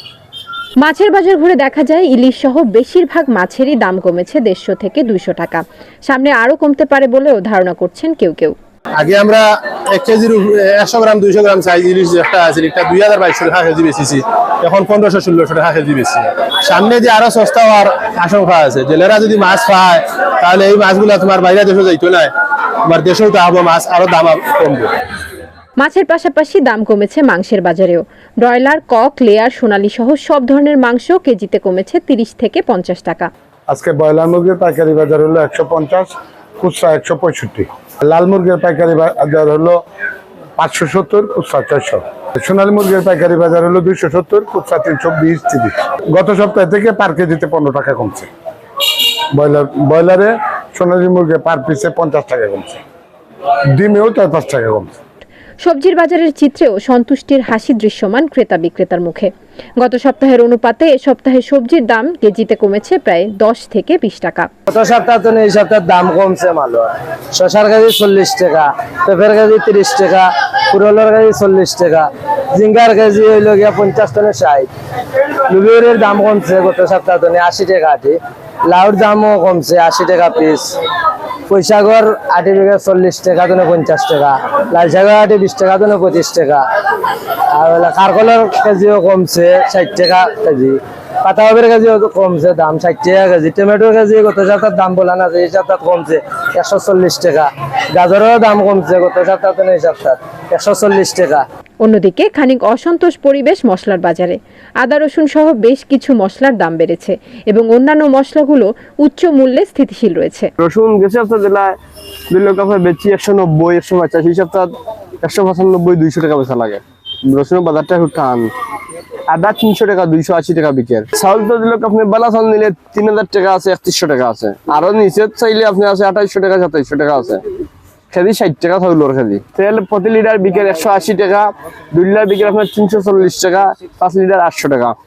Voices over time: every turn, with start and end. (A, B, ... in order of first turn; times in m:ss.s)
0:00.8-0:08.5 A
0:09.0-0:22.3 B
0:22.9-0:24.9 B
0:25.8-0:33.3 A
0:33.7-0:39.8 C
0:40.6-0:48.3 C
0:49.3-0:52.8 C
0:53.7-0:55.0 C
0:55.6-1:04.5 A
1:04.7-1:14.7 D
1:15.5-1:20.7 D
1:21.5-1:26.6 D
1:27.5-1:41.4 D
1:41.8-1:50.5 A
1:50.6-1:51.8 E
1:52.3-1:58.5 E
1:59.3-2:07.4 E
2:08.1-2:15.0 E